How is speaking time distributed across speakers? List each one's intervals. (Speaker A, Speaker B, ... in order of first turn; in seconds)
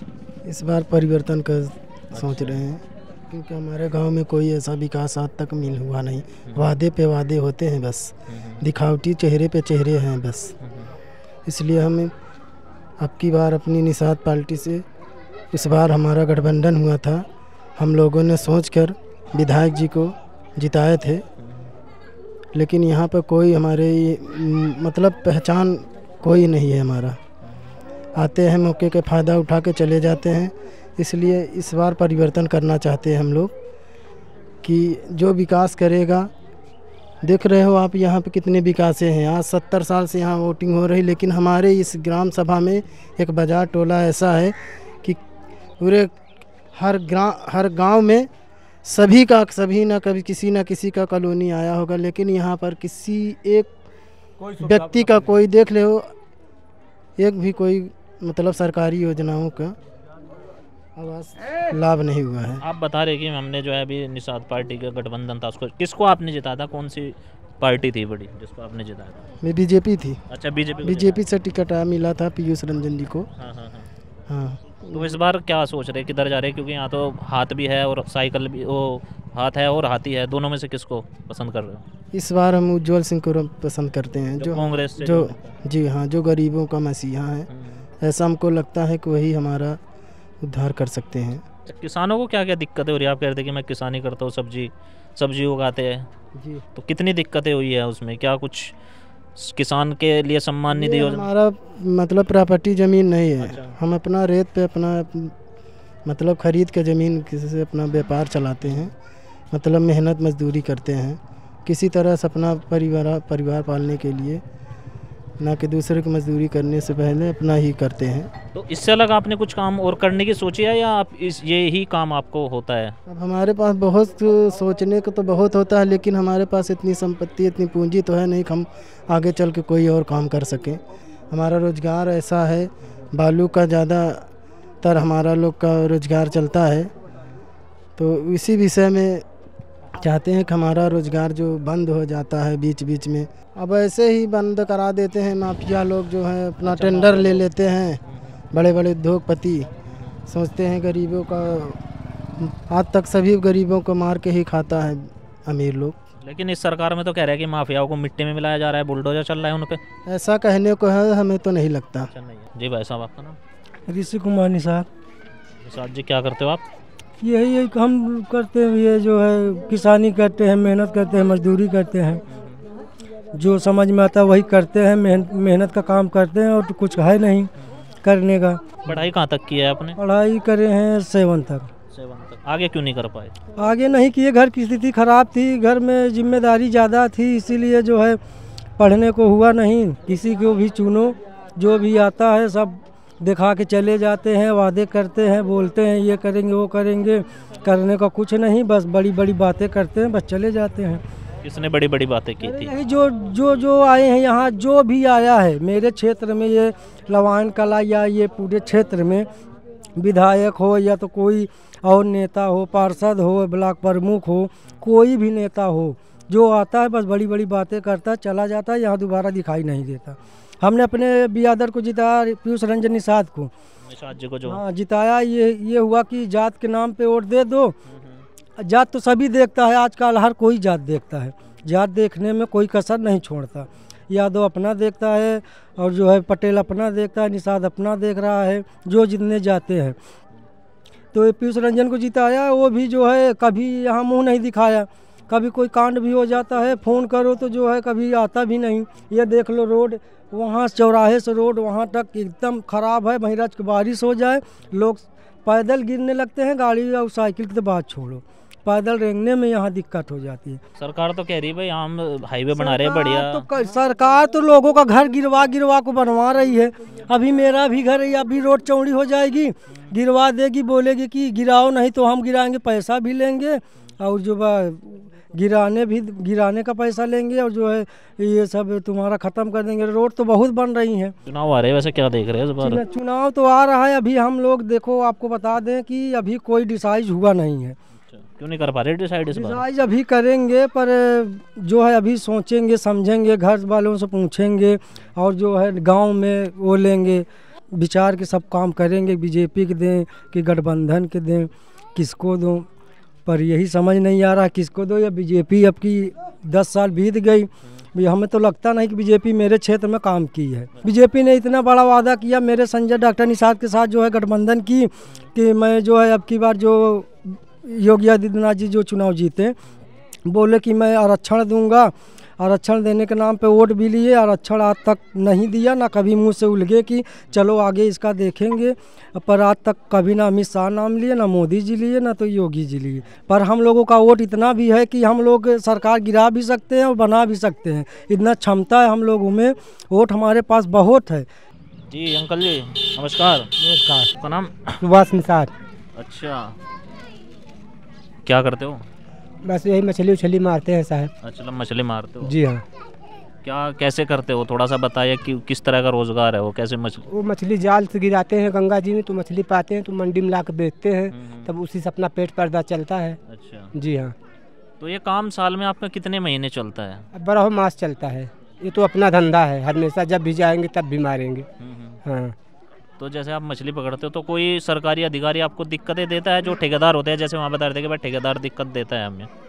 Speaker A: 0.5-10.5, 11.4-12.1, 13.0-14.8, 15.5-21.2, 22.5-27.2, 28.2-33.5, 34.6-36.3, 37.2-45.2, 45.8-46.2, 46.7-48.3, 48.8-53.7, 54.5-56.1, 57.2-59.7, 61.0-62.6, 69.4-70.2, 70.8-73.3, 74.3-75.2, 82.1-87.5, 88.0-89.8, 90.4-91.4, 100.7-105.3, 106.0-108.9, 109.5-114.4, 115.4-118.3, 123.1-130.8, 131.3-134.3, 134.8-136.9, 138.0-139.2, 140.0-148.0, 148.5-149.7, 150.3-151.8, 152.4-155.9, 160.1-162.1
Speaker B: 2.1-2.6, 8.3-8.6, 10.6-10.9, 21.4-21.7, 62.6-69.3, 70.3-71.2, 73.4-73.9, 74.9-81.8, 84.4-85.5, 87.5-87.8, 91.7-96.1, 96.8-98.7, 99.4-101.3, 103.4-103.7, 118.5-123.0, 146.6-147.5, 156.2-159.8, 162.1-163.4, 165.6-166.6, 172.3-172.6, 178.8-180.0, 181.9-183.3, 201.4-202.7, 223.9-224.6, 227.9-228.2, 260.8-263.4, 281.2-282.8, 288.1-289.6, 341.9-343.5, 344.2-344.8, 345.9-346.6, 348.2-348.8, 351.2-352.3, 353.4-357.1, 361.1-361.5, 363.3-363.7, 364.8-367.1, 371.6-372.0, 373.0-379.3
Speaker C: 163.9-164.8, 167.2-172.2, 173.3-177.5, 178.0-178.9, 180.0-181.7, 183.6-188.2, 188.8-201.0, 202.4-209.3, 210.0-223.5, 224.4-227.7, 228.6-239.9, 241.1-260.6, 262.5-281.1, 282.6-287.8, 289.3-302.7, 303.2-319.6, 320.3-341.3
Speaker D: 343.6-344.1, 344.8-345.5, 349.4-351.1, 352.2-352.6, 357.1-363.2, 363.7-364.1, 367.1-371.4, 372.0-372.3